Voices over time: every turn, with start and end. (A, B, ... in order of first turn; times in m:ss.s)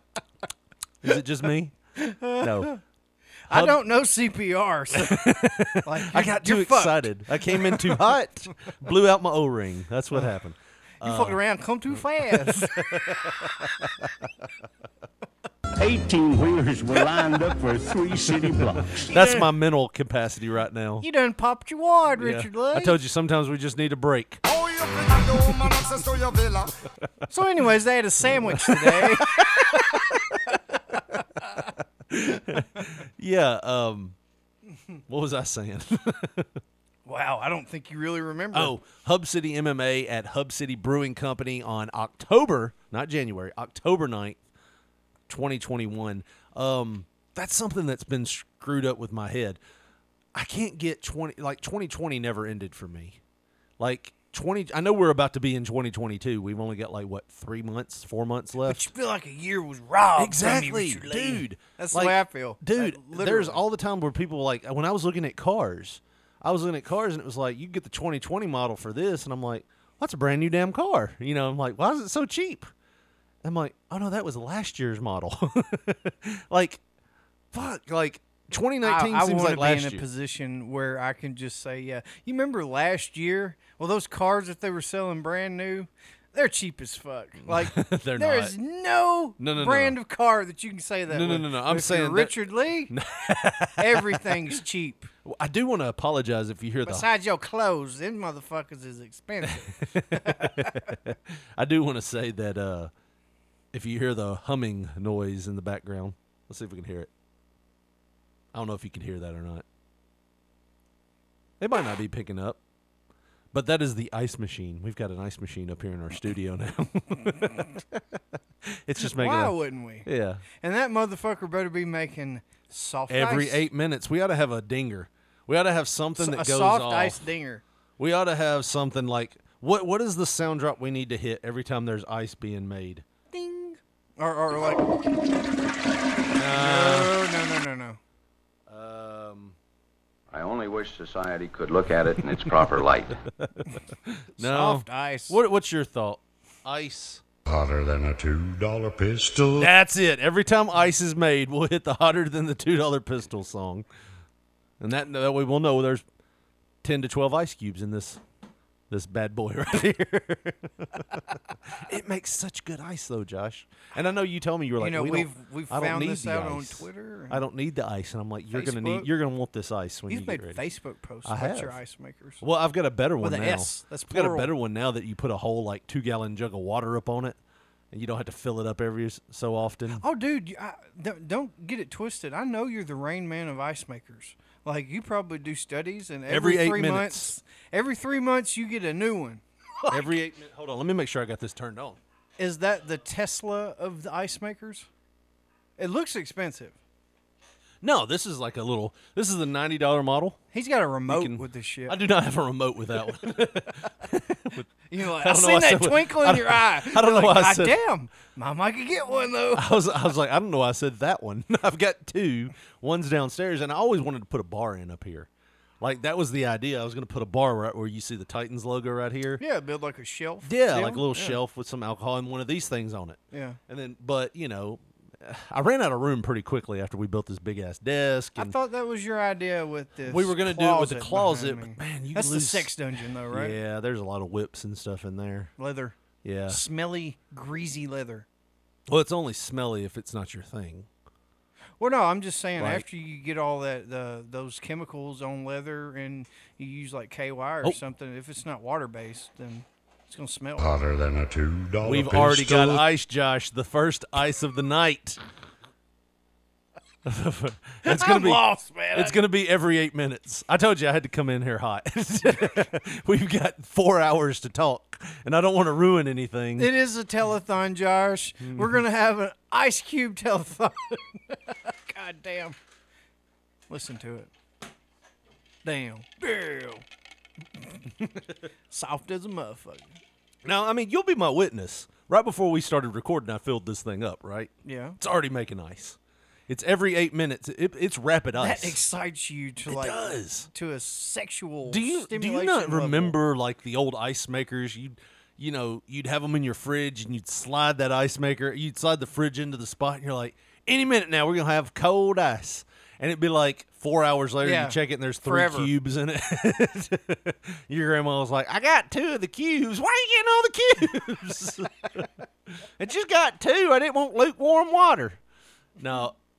0:01.0-0:01.8 A
0:02.0-0:02.8 B
0:02.4-0:02.7 A
0:03.5-0:05.2 B
0:03.5-0:03.8 A
0:04.9-0:11.4 A
0:05.8-0:08.0 B
0:11.0-0:12.8 B
0:12.4-0:14.1 A
0:15.8-0:19.0 C
0:18.9-0:21.1 A
0:19.1-0:19.4 B
0:21.0-0:23.0 B
0:22.2-0:26.9 A
0:27.3-0:31.7 B
0:28.2-0:30.4 A
0:32.1-0:34.2 A
0:35.1-0:36.5 A
0:37.1-0:38.8 B
0:38.5-0:44.4 A
0:45.3-0:49.6 A
0:50.3-0:53.2 A
0:53.8-0:58.9 A
0:58.6-1:03.6 B
1:00.2-1:12.7 A
1:13.4-1:16.8 A
1:17.5-1:20.0 A
1:18.8-1:32.9 B
1:27.4-1:28.6 A
1:29.4-1:30.0 A
1:31.1-1:34.5 A
1:33.8-1:35.1 B
1:35.2-1:37.1 A
1:36.8-1:41.0 B
1:39.5-1:42.9 A
1:43.7-1:47.1 A
1:48.5-1:49.6 A
1:51.6-1:52.6 A
1:53.5-2:00.4 A
1:59.0-2:00.1 B
2:00.6-2:03.6 B
2:03.1-2:07.2 A
2:06.2-2:07.6 B
2:08.0-2:13.0 A
2:13.3-2:15.0 B
2:16.4-2:17.1 A
2:16.5-2:18.0 B
2:18.7-2:19.6 A
2:20.3-2:23.2 D
2:22.6-2:27.2 A
2:24.4-2:25.4 B
2:27.5-2:29.7 E
2:29.6-2:33.9 A
2:34.8-2:36.0 A
2:36.8-2:38.2 A
2:38.9-2:50.6 A
2:44.8-2:47.4 B
2:48.5-2:49.1 B
2:50.1-2:52.4 B
2:51.2-2:51.8 A
2:52.4-2:57.4 A
2:53.2-2:54.5 B
2:57.9-3:00.0 A
2:59.9-3:09.4 B
3:06.3-3:07.4 A
3:09.9-3:12.0 A
3:12.4-3:14.9 B
3:15.8-3:16.8 B
3:17.8-3:20.4 A
3:20.5-3:22.0 B
3:21.1-3:27.8 A
3:24.9-3:29.7 B
3:29.5-3:35.3 A
3:35.8-3:39.4 A
3:39.4-3:41.4 B
3:40.4-3:48.6 A
3:43.3-3:43.6 B
3:48.4-3:53.6 B
3:50.1-3:52.7 A
3:53.3-3:55.5 A
3:55.6-3:58.3 B
3:56.2-3:56.6 A
3:58.9-4:00.9 A
4:01.8-4:10.7 B
4:02.6-4:02.8 A
4:10.6-4:12.8 E
4:11.8-4:15.2 A
4:17.0-4:26.7 A
4:17.8-4:19.2 B
4:26.6-4:32.6 B
4:28.4-4:28.8 A
4:33.7-4:34.3 B
4:35.6-4:36.8 B
4:38.7-4:40.0 B
4:40.4-4:48.8 A
4:44.6-4:45.0 B
4:48.4-4:53.2 B
4:49.7-4:50.5 A
4:51.7-5:12.1 A
5:04.4-5:05.7 B
5:12.8-5:15.2 A
5:15.8-5:16.2 A